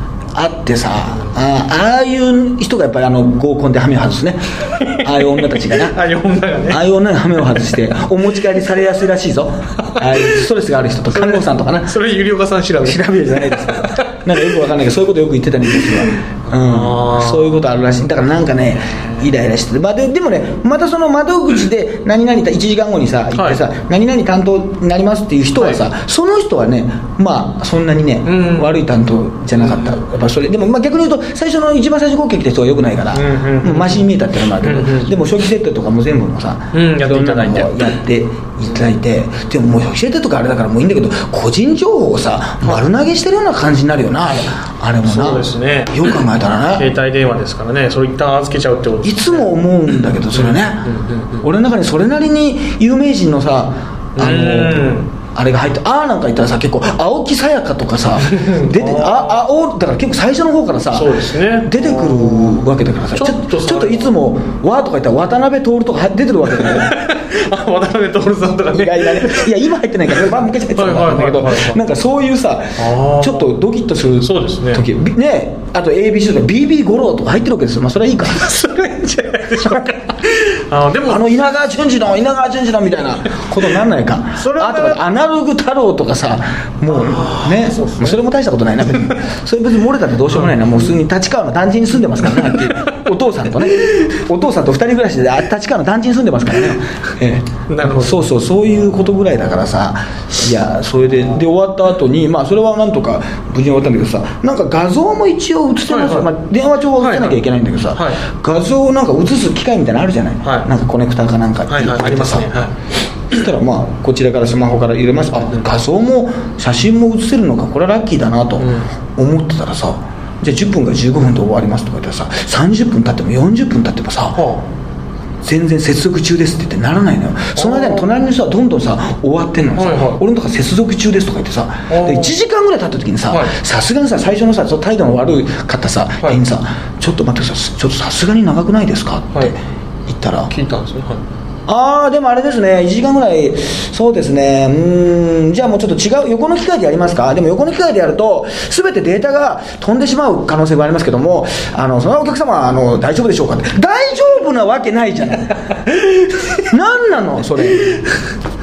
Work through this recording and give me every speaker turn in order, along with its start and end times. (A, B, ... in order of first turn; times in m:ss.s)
0:00.3-0:06.0 A
0:04.7-0:06.8 B
0:06.7-0:11.9 A
0:09.8-0:10.3 B
0:11.1-0:14.1 B
0:12.8-0:46.8 A
0:16.5-0:17.6 B
0:23.3-0:23.6 B
0:28.2-0:28.8 B
0:33.1-0:34.1 B
0:34.6-0:35.1 B
0:36.7-0:37.9 B
0:45.0-0:49.5 B
0:49.0-1:07.0 A
0:50.3-0:51.4 B
0:54.2-0:55.1 B
0:58.2-0:59.4 B
1:00.9-1:02.6 B
1:03.1-1:04.1 B
1:06.5-1:09.5 B
1:08.7-1:18.4 A
1:10.7-1:11.8 B
1:12.8-1:13.6 B
1:14.2-1:14.8 B
1:18.3-1:21.3 B
1:21.0-1:52.5 A
1:24.4-1:25.0 B
1:26.9-1:28.2 B
1:37.7-1:38.2 B
1:45.9-1:46.3 B
1:47.0-1:47.4 B
1:47.9-1:48.2 B
1:51.7-1:52.7 B
1:53.3-2:04.4 A
1:58.6-1:58.9 B
2:04.4-2:04.6 B
2:05.4-2:20.5 A
2:07.6-2:08.1 B
2:09.8-2:10.2 B
2:11.9-2:12.4 B
2:13.3-2:13.5 B
2:20.5-2:21.2 B
2:21.7-2:36.0 A
2:36.5-2:38.0 A